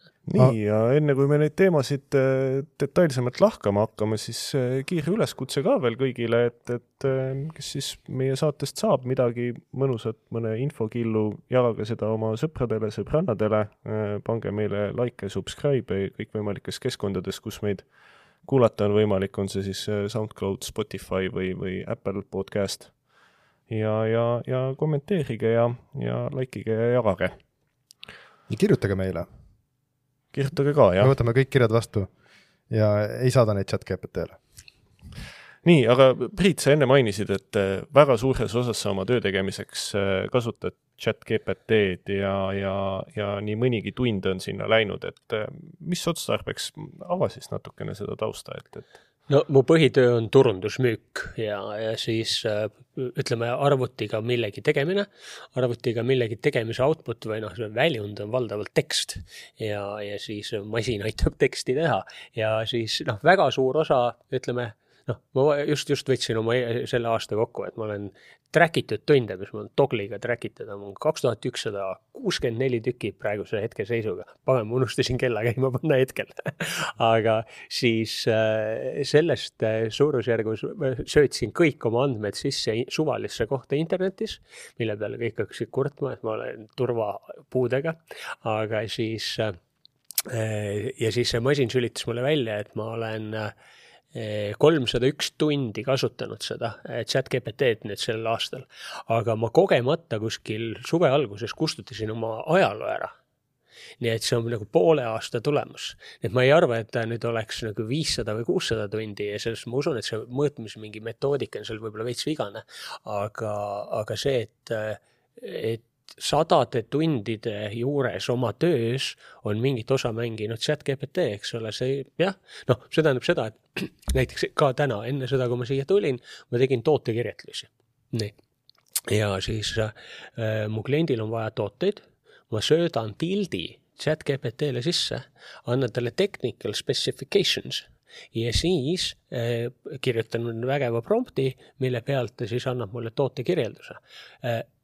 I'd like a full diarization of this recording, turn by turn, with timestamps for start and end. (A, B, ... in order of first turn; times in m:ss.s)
0:00.3-0:17.9 A
0:18.4-0:23.0 A
0:23.7-0:27.4 A
0:28.5-0:29.3 B
0:30.3-0:31.1 A
0:31.0-0:32.1 B
0:32.7-0:34.4 B
0:35.6-0:48.9 A
0:49.3-1:29.6 C
1:30.3-1:33.5 C
1:34.1-1:43.2 C
1:44.0-2:08.3 C
2:09.1-2:24.7 C